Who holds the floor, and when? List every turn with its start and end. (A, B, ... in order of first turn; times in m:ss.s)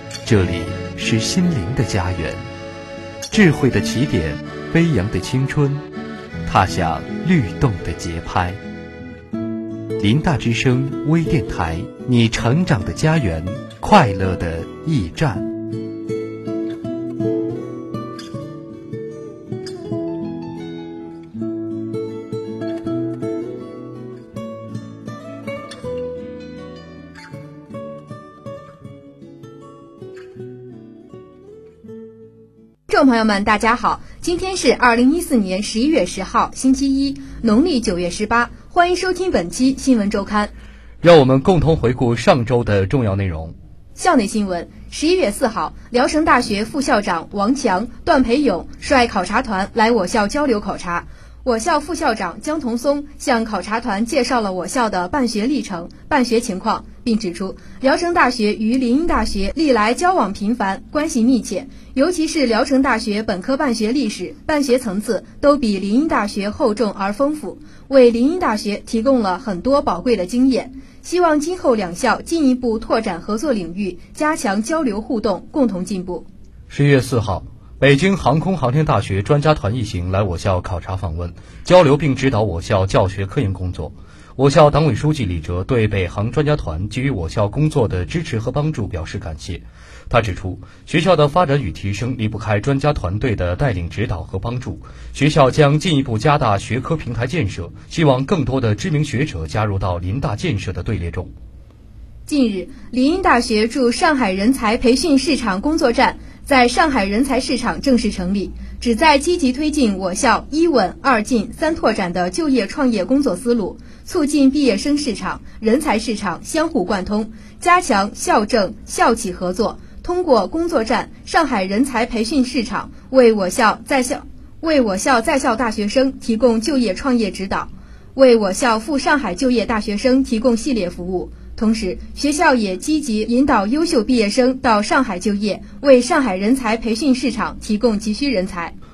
0:00.2-0:02.5 A
0:03.3-0:05.8 A
0:06.4-0:08.6 A
0:10.0-0:15.5 A
0:32.9-0:40.5 B
0:41.0-0:43.5 A
0:44.0-1:16.3 B
1:16.7-1:41.3 A
1:42.2-2:18.7 B